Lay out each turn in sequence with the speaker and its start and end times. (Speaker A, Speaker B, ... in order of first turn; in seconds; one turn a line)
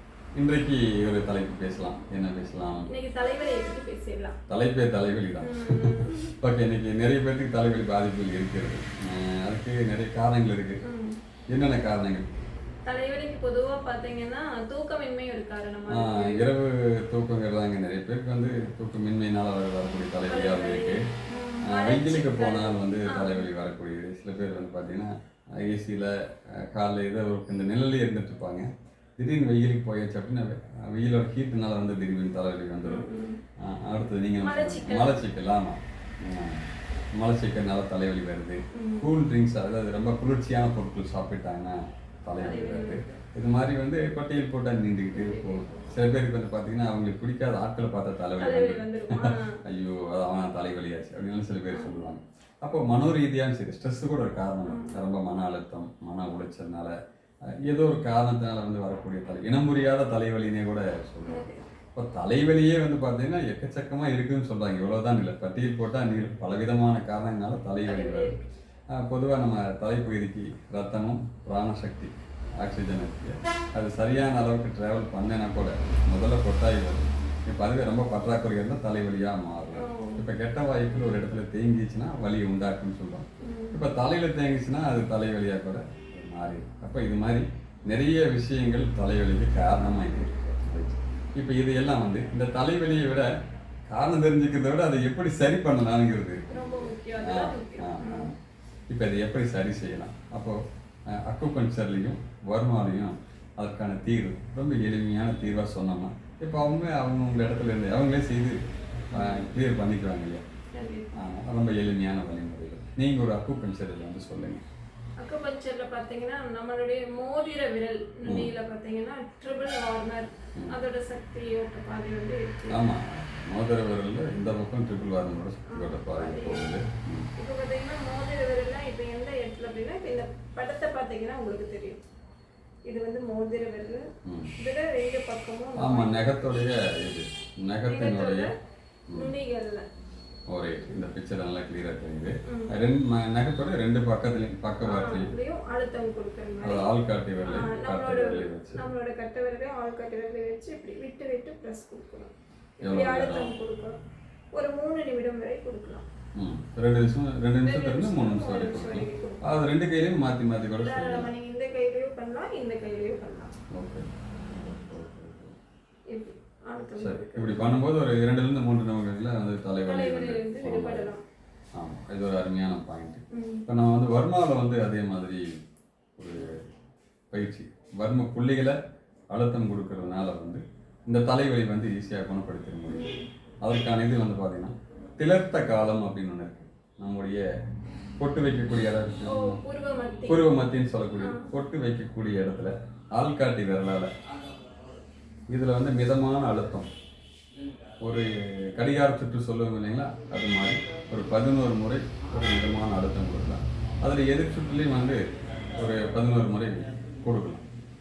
Speaker A: 0.4-2.9
Speaker B: 2.9-4.3
Speaker A: 4.5-10.8
Speaker B: 5.4-6.3
Speaker B: 10.8-11.2
Speaker A: 11.5-12.3
Speaker B: 12.8-16.5
Speaker A: 15.9-21.1
Speaker B: 20.3-23.5
Speaker A: 21.7-28.6
Speaker A: 29.2-33.0
Speaker B: 32.8-33.4
Speaker A: 33.6-36.6
Speaker B: 34.4-35.2
Speaker A: 37.2-57.0
Speaker B: 38.7-39.1
Speaker B: 42.4-43.1
Speaker B: 45.1-45.9
Speaker B: 48.4-49.6
Speaker B: 54.7-55.0
Speaker A: 57.6-68.3
Speaker B: 61.3-61.6
Speaker B: 67.9-68.4
Speaker A: 69.0-93.3
Speaker B: 79.8-80.2
Speaker B: 83.4-83.8
Speaker A: 93.9-98.3
Speaker B: 96.5-98.3
Speaker A: 98.9-100.6
Speaker A: 101.1-108.6
Speaker A: 109.1-110.4
Speaker B: 109.1-109.4
Speaker B: 110.8-111.2
Speaker A: 111.2-114.6
Speaker B: 115.2-122.8
Speaker A: 118.3-118.5
Speaker A: 122.7-127.3
Speaker B: 125.7-126.7
Speaker B: 127.4-132.0
Speaker B: 132.9-134.1
Speaker A: 134.2-134.5
Speaker B: 134.6-136.2
Speaker A: 135.8-138.5
Speaker B: 137.9-138.5
Speaker B: 139.1-139.9
Speaker A: 140.5-145.3
Speaker B: 142.5-142.8
Speaker B: 144.8-146.9
Speaker A: 146.6-148.8
Speaker B: 147.5-152.3
Speaker B: 152.8-154.0
Speaker A: 152.8-153.5
Speaker B: 154.5-156.1
Speaker A: 156.4-161.3
Speaker B: 157.6-159.4
Speaker B: 160.8-163.5
Speaker A: 163.7-165.6
Speaker B: 166.1-167.7
Speaker A: 167.0-171.1
Speaker B: 169.8-171.2
Speaker A: 171.8-175.4
Speaker B: 173.3-173.7
Speaker A: 176.2-176.6
Speaker A: 177.3-178.8
Speaker A: 179.3-183.1
Speaker B: 182.9-183.2
Speaker A: 183.6-187.4
Speaker A: 188.2-189.6
Speaker B: 189.3-190.5
Speaker A: 190.3-194.1
Speaker A: 195.5-196.9
Speaker A: 198.0-205.2
Speaker A: 205.8-207.6